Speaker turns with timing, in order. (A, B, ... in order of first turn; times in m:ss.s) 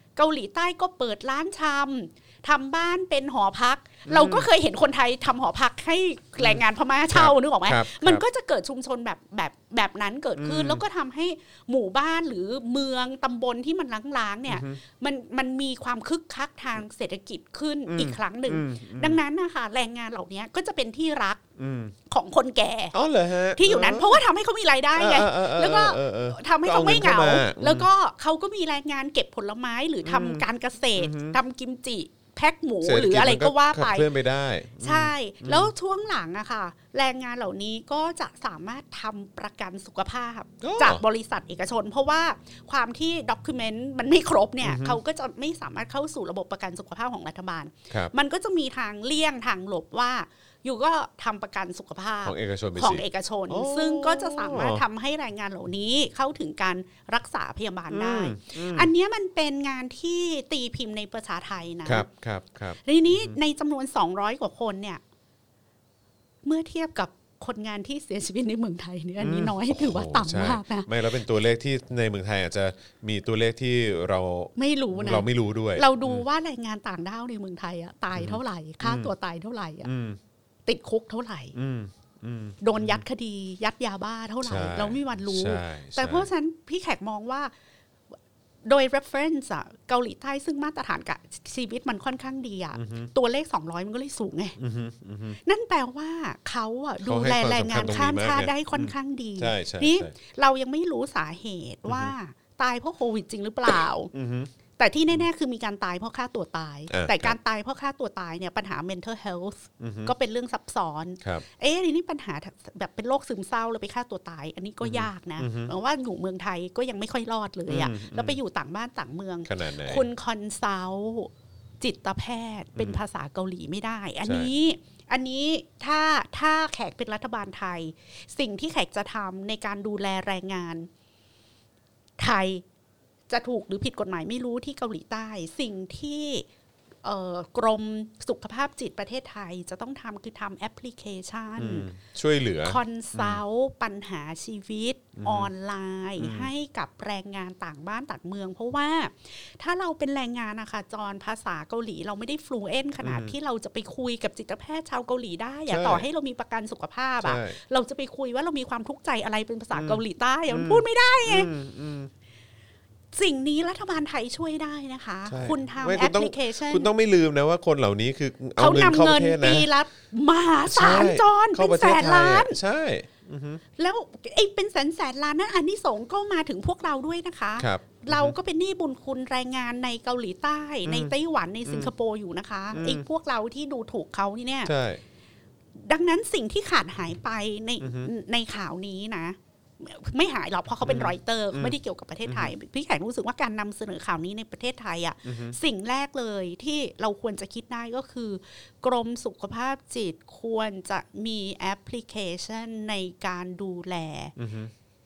0:00.2-0:21.4 A
0:04.1-0:04.5 B
0:06.4-0:08.2 B
0:10.4-0:10.8 B
0:14.5-0:14.8 B
0:17.9-0:19.2 B
0:21.6-0:21.9 B
0:22.1-0:23.0 A
0:22.9-0:24.2 B
0:23.5-0:34.1 A
0:24.9-0:27.9 B
0:30.0-0:30.4 B
0:31.0-0:31.4 B
0:32.8-0:35.7 B
0:34.8-1:02.0 A
0:40.6-0:41.0 B
0:44.6-0:45.0 B
0:52.2-0:54.8 B
0:57.9-0:58.9 B
1:01.8-1:03.4 B
1:02.8-1:05.0 A
1:06.4-1:10.9 A
1:09.2-1:16.2 B
1:14.6-1:19.9 A
1:18.1-1:19.1 B
1:19.8-1:20.2 B
1:20.6-1:21.5 A
1:21.5-1:23.0 B
1:22.6-1:27.5 A
1:24.4-1:26.3 B
1:28.6-1:34.6 A
1:32.8-1:33.1 B
1:34.6-1:35.4 B
1:35.4-1:44.1 A
1:37.0-1:40.1 B
1:41.9-1:42.1 B
1:44.1-1:44.5 B
1:44.8-2:10.9 A
1:46.9-1:47.4 B
1:49.8-1:50.1 B
1:54.8-1:55.7 B
1:57.7-1:58.4 B
1:59.4-2:00.0 B
2:02.8-2:03.0 B
2:04.2-2:04.5 B
2:12.2-2:12.6 A
2:13.3-2:16.4 A
2:17.0-2:21.9 A
2:21.6-2:23.4 B
2:22.6-2:41.5 A
2:25.2-2:25.5 B
2:26.2-2:26.5 B
2:33.0-2:33.3 B
2:35.7-2:36.0 B
2:37.2-2:37.6 B
2:39.7-2:42.1 B
2:43.1-2:46.9 A
2:45.3-2:49.7 B
2:48.6-2:52.6 A
2:50.7-2:53.6 B
2:53.8-3:04.7 A
2:57.6-2:58.3 B
3:00.8-3:01.9 B
3:02.7-3:03.0 B
3:04.6-3:05.0 B
3:05.9-3:24.3 A
3:07.8-3:08.1 B
3:10.8-3:12.5 B
3:15.2-3:15.6 B
3:24.4-3:24.7 B